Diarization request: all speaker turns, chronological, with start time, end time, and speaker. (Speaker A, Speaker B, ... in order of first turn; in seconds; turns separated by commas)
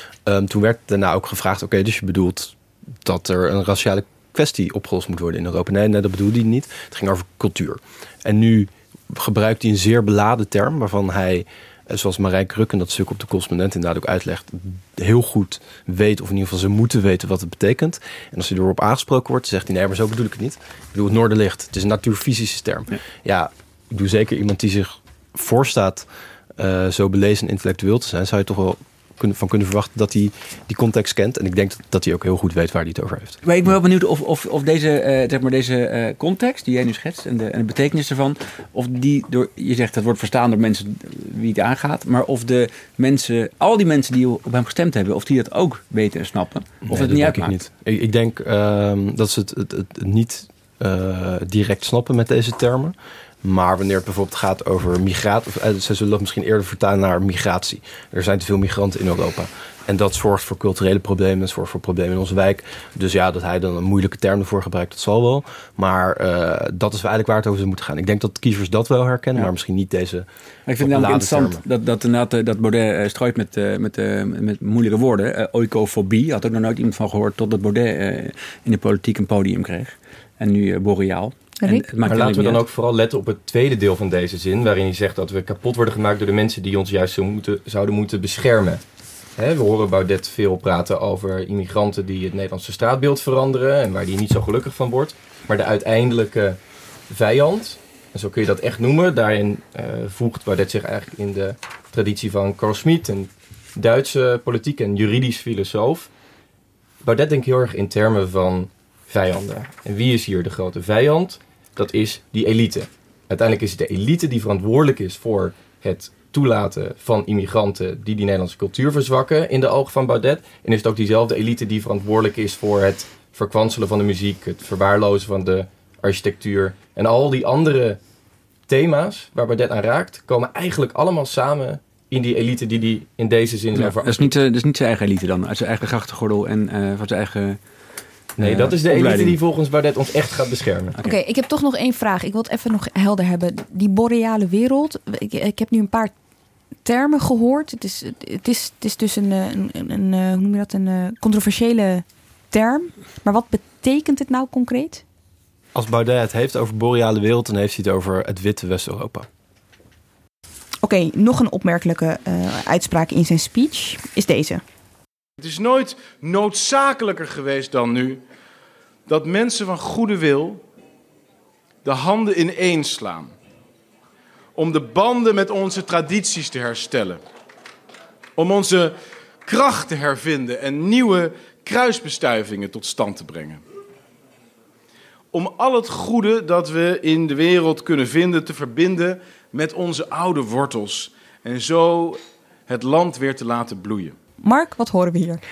Speaker A: 0.3-33.4, Speaker B: 33.4-47.5, Speaker A: 46.9-70.3, Speaker B: 70.7-82.6, Speaker A: 70.8-71.6, Speaker C: 82.0-88.8, Speaker C: 89.4-96.6, Speaker C: 97.1-106.1, Speaker C: 107.0-128.0, Speaker C: 128.7-134.3, Speaker B: 133.8-137.6, Speaker B: 138.4-139.4, Speaker C: 138.4-140.9, Speaker D: 141.0-146.1, Speaker D: 146.8-155.0, Speaker A: 155.8-159.3, Speaker D: 160.8-164.6, Speaker E: 165.4-168.2, Speaker E: 169.1-170.6, Speaker E: 171.8-173.3, Speaker E: 174.6-177.2, Speaker E: 178.4-183.6, Speaker E: 185.3-194.2, Speaker D: 194.4-195.4